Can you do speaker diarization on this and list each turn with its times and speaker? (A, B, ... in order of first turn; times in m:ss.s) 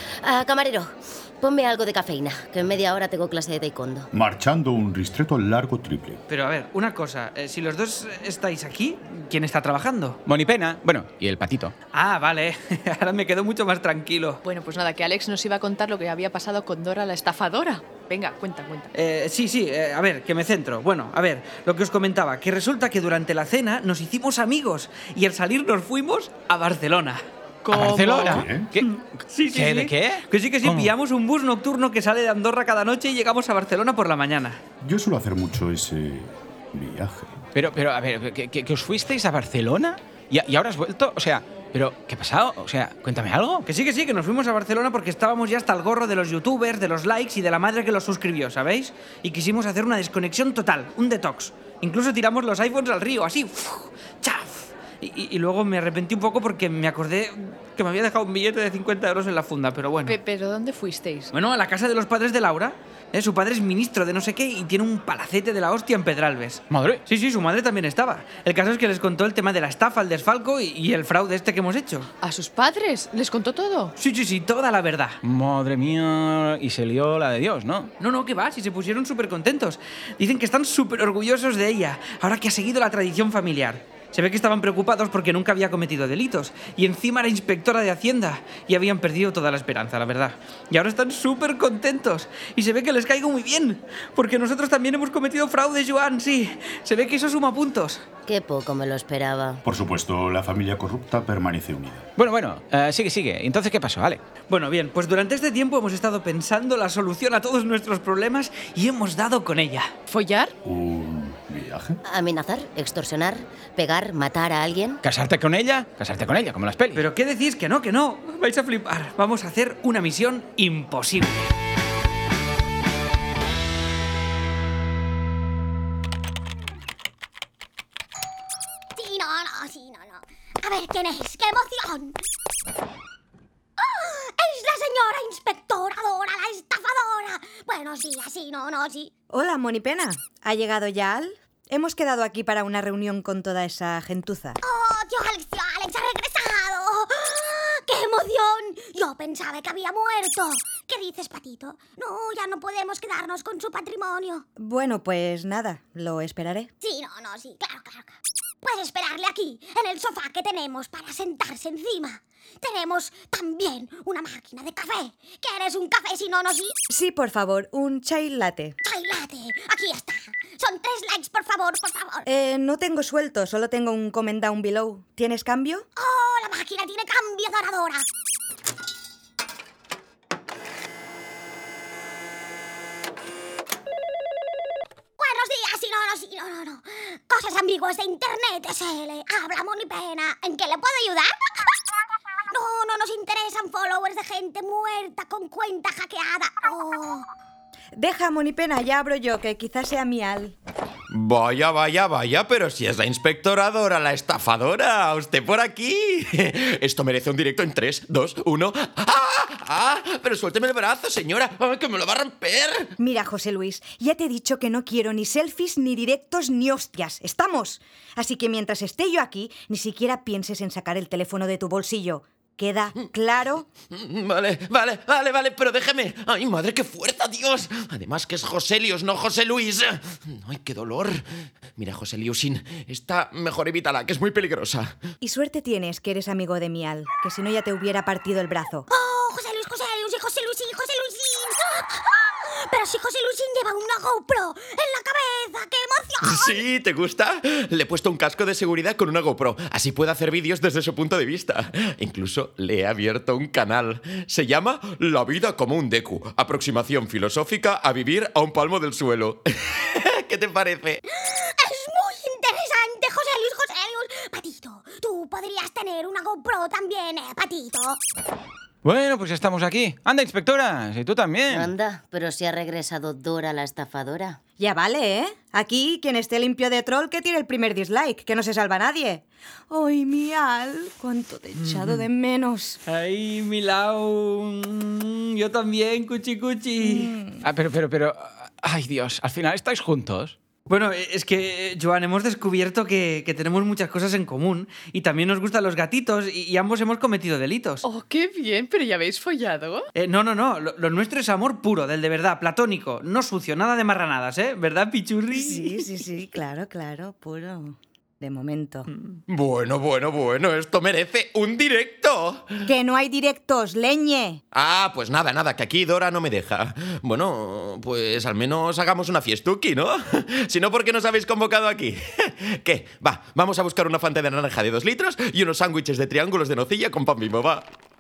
0:00.2-0:04.1 A
0:04.1-0:06.2 B
0:06.3-0:10.2 C
0:10.3-0:11.7 D
0:11.9-0:14.4 C
0:14.4-0:18.9 E
0:18.9-0:27.2 C
0:27.6-0:28.4 E
0:27.7-0:28.9 D
0:28.3-0:28.7 B
0:28.8-0:34.6 C
0:29.5-0:30.9 D
0:34.8-0:37.4 B
0:37.6-0:43.7 D
0:43.7-1:00.2 C
1:00.0-1:01.3 E
1:01.3-1:12.1 C
1:06.7-1:07.0 D
1:12.2-1:14.0 E
1:14.0-1:15.2 C
1:15.2-1:17.9 D
1:18.0-1:38.0 C
1:38.3-1:39.6 A
1:39.6-1:42.1 B
1:42.2-1:44.2 D
1:44.5-1:49.9 C
1:50.1-1:50.6 E
1:50.6-1:52.0 B
1:52.0-1:55.0 A
1:55.0-1:57.0 D
1:57.0-2:01.5 C
2:09.0-2:12.2 F
2:13.8-2:19.1 F
2:19.3-2:24.6 G
2:24.6-2:34.4 F
2:34.6-2:36.7 G
2:36.8-2:46.8 F
2:46.9-2:48.8 G
2:48.8-2:52.3 F
2:52.3-2:55.9 G
2:56.0-2:58.0 F
3:05.2-3:11.3 F
3:12.5-3:17.2 F
3:18.0-3:20.6 G
3:21.1-3:32.9 H
3:33.0-3:43.7 G
3:43.9-3:51.2 H
3:51.8-3:55.0 H
3:55.2-3:58.9 G
3:58.9-4:06.6 F
4:06.2-4:21.0 H
4:21.1-4:28.0 F
4:28.8-4:31.7 D
4:31.5-4:34.4 A
4:34.6-4:42.8 G
4:41.6-4:42.0 C
4:42.9-4:47.1 C
4:46.8-4:47.4 G
4:47.4-4:50.4 D
4:50.7-4:57.8 C
4:57.8-4:59.9 E
5:00.0-5:05.9 C
5:05.3-5:08.9 G
5:09.3-5:12.6 H
5:12.7-5:14.4 G
5:14.5-5:27.7 H